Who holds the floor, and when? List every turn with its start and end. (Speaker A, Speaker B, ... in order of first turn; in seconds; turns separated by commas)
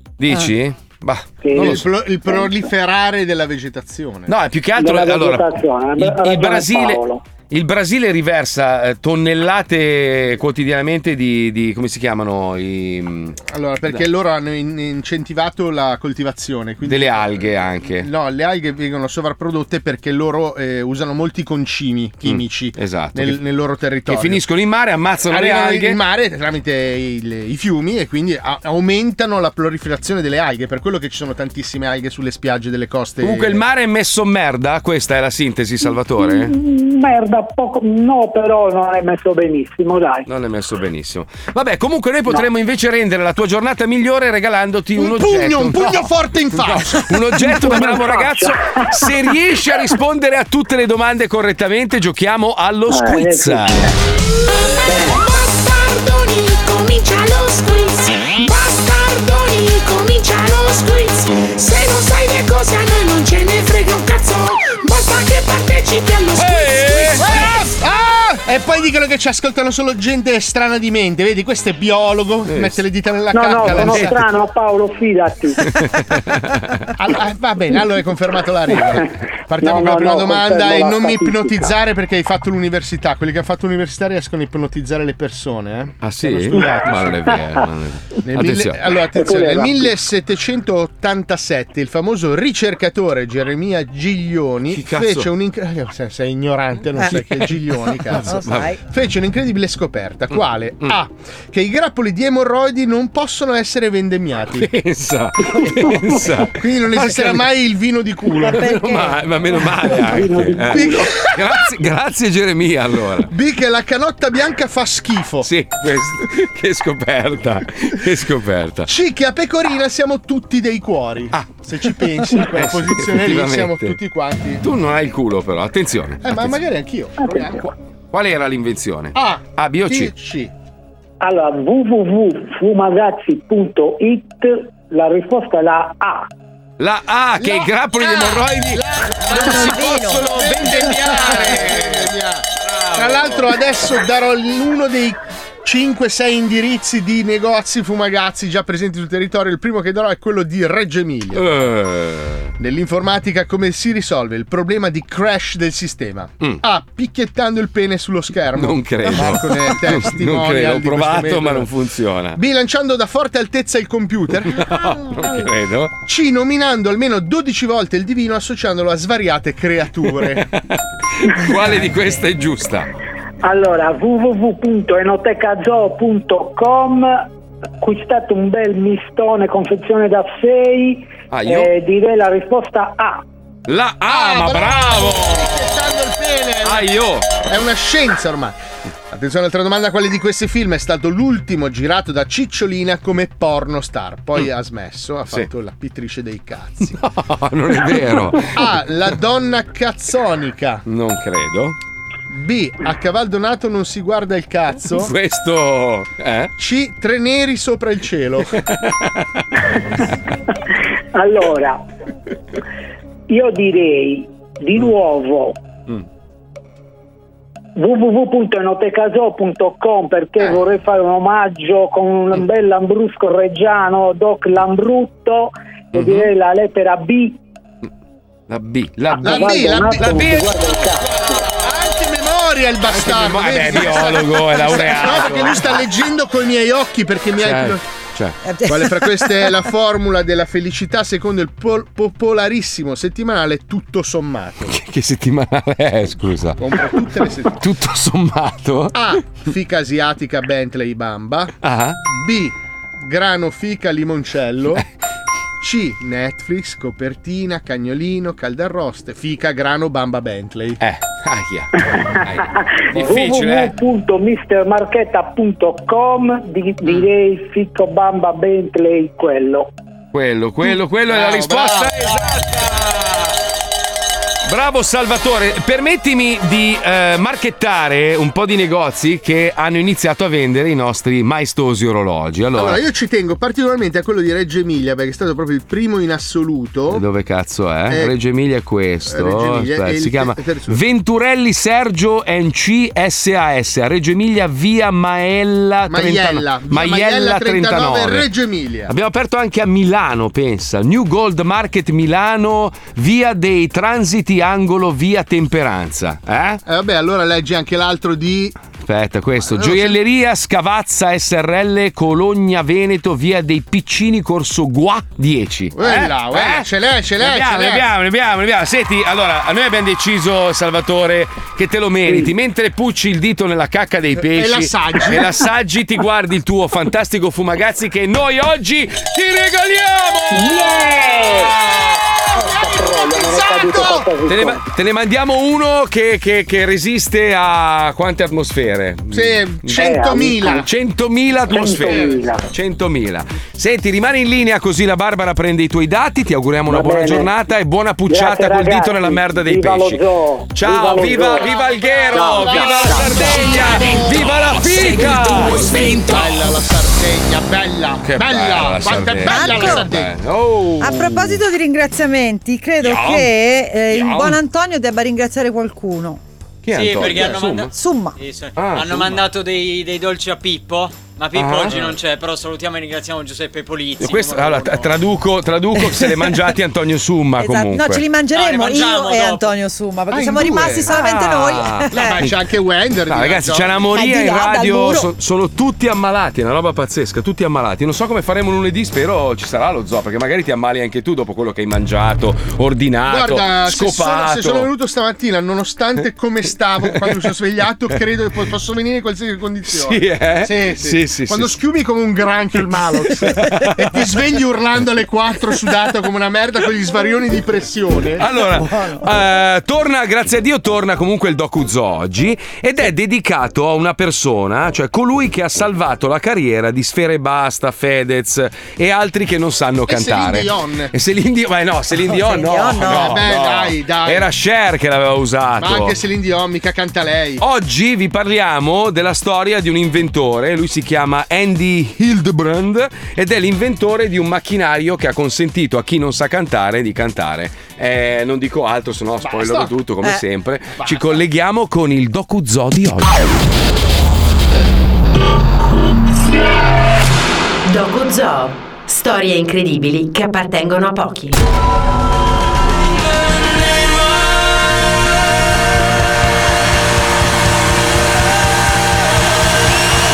Speaker A: 0.2-1.9, Speaker B: 1.4-1.8, Speaker C: 1.5-4.3, Speaker A: 4.3-14.0, Speaker B: 4.8-7.2, Speaker C: 13.5-24.4, Speaker A: 16.9-18.1, Speaker A: 22.2-23.4, Speaker A: 24.1-26.0, Speaker C: 25.3-33.6, Speaker A: 33.2-36.5, Speaker B: 35.9-40.3, Speaker A: 40.2-53.9, Speaker C: 45.0-47.1, Speaker B: 47.4-49.3, Speaker B: 52.9-54.0, Speaker B: 54.8-55.2, Speaker D: 55.5-66.8, Speaker A: 66.3-67.3, Speaker C: 67.2-74.2, Speaker A: 72.5-72.8, Speaker B: 73.3-75.6, Speaker A: 73.6-74.2, Speaker A: 75.6-76.8, Speaker C: 77.0-87.3, Speaker B: 79.6-81.7, Speaker A: 86.0-88.9, Speaker C: 88.2-104.7, Speaker B: 89.1-89.9, Speaker A: 94.7-95.3, Speaker A: 97.0-98.7, Speaker E: 98.3-98.8, Speaker A: 104.5-107.5, Speaker B: 105.5-106.2, Speaker C: 106.6-108.7, Speaker A: 108.4-113.3, Speaker E: 108.5-109.2, Speaker B: 109.8-111.1, Speaker C: 110.7-111.4, Speaker C: 113.3-115.5, Speaker A: 115.4-118.9, Speaker C: 118.9-124.6, Speaker A: 121.3-121.6, Speaker A: 122.3-124.0, Speaker A: 124.6-126.6, Speaker C: 126.2-127.7, Speaker B: 127.2-127.7, Speaker A: 128.1-130.1, Speaker C: 129.1-130.5, Speaker B: 131.2-136.3, Speaker A: 136.8-143.5, Speaker C: 137.4-142.4, Speaker E: 139.4-140.2, Speaker C: 142.9-151.4, Speaker A: 151.3-152.5, Speaker C: 152.6-161.7, Speaker A: 158.6-162.4, Speaker C: 162.3-164.6, Speaker A: 164.5-165.9, Speaker C: 166.1-170.4, Speaker A: 171.1-172.9, Speaker B: 173.4-177.2, Speaker B: 177.8-183.2, Speaker A: 181.3-181.7, Speaker A: 183.7-185.7, Speaker C: 184.1-188.6, Speaker A: 186.6-187.4, Speaker C: 189.1-197.0, Speaker A: 196.8-198.7, Speaker C: 198.5-200.8, Speaker A: 200.8-201.8, Speaker C: 202.3-205.1, Speaker A: 205.0-206.5, Speaker C: 206.6-208.6, Speaker A: 208.6-209.4, Speaker B: 211.1-211.8, Speaker B: 213.3-215.6, Speaker B: 217.8-227.4, Speaker A: 225.9-226.3, Speaker A: 228.5-231.1, Speaker B: 229.1-231.5, Speaker C: 229.2-230.2, Speaker C: 231.4-237.8, Speaker A: 232.9-235.8, Speaker A: 237.4-238.4, Speaker E: 238.4-239.5, Speaker C: 238.7-244.8, Speaker A: 244.7-246.6, Speaker C: 246.6-247.6, Speaker A: 247.5-249.0, Speaker C: 248.9-251.5, Speaker A: 251.6-252.0, Speaker C: 252.0-254.8, Speaker C: 255.6-260.8, Speaker A: 260.8-263.7, Speaker B: 261.8-269.7, Speaker A: 270.1-273.4, Speaker C: 271.1-272.3, Speaker A: 274.4-282.8, Speaker C: 282.6-287.0, Speaker A: 286.9-298.3, Speaker C: 289.1-290.8, Speaker C: 295.9-298.9, Speaker A: 298.9-306.6, Speaker C: 306.6-308.5, Speaker A: 308.8-316.7, Speaker C: 309.4-310.0, Speaker C: 315.8-317.9, Speaker A: 317.2-332.0, Speaker C: 324.2-325.3, Speaker B: 330.3-331.5, Speaker C: 332.3-334.1, Speaker B: 332.3-334.6, Speaker A: 334.2-350.0, Speaker C: 339.1-340.7, Speaker B: 339.8-340.6, Speaker B: 341.5-342.4, Speaker B: 346.7-347.3, Speaker B: 348.1-351.5, Speaker A: 350.5-356.1, Speaker B: 352.1-353.4, Speaker C: 355.2-360.1, Speaker A: 358.0-361.4, Speaker E: 359.2-359.9, Speaker E: 360.8-366.2, Speaker A: 362.8-363.3, Speaker A: 363.9-364.4, Speaker A: 366.6-367.7, Speaker F: 366.8-367.5, Speaker E: 367.6-368.2, Speaker F: 368.2-374.9, Speaker A: 368.6-369.3, Speaker A: 371.3-371.9, Speaker A: 374.0-378.0, Speaker E: 377.4-382.2, Speaker F: 378.4-379.5, Speaker C: 380.1-381.0, Speaker A: 380.9-382.4, Speaker C: 381.9-383.9, Speaker A: 383.1-394.7, Speaker E: 383.9-385.1, Speaker C: 393.1-408.3, Speaker A: 399.7-401.5, Speaker A: 403.2-404.0, Speaker A: 408.2-425.9, Speaker C: 419.9-420.9, Speaker E: 422.0-423.2, Speaker C: 422.8-424.3, Speaker C: 425.6-427.4, Speaker A: 427.4-443.2, Speaker C: 439.2-439.7, Speaker C: 440.8-441.1, Speaker G: 447.6-451.4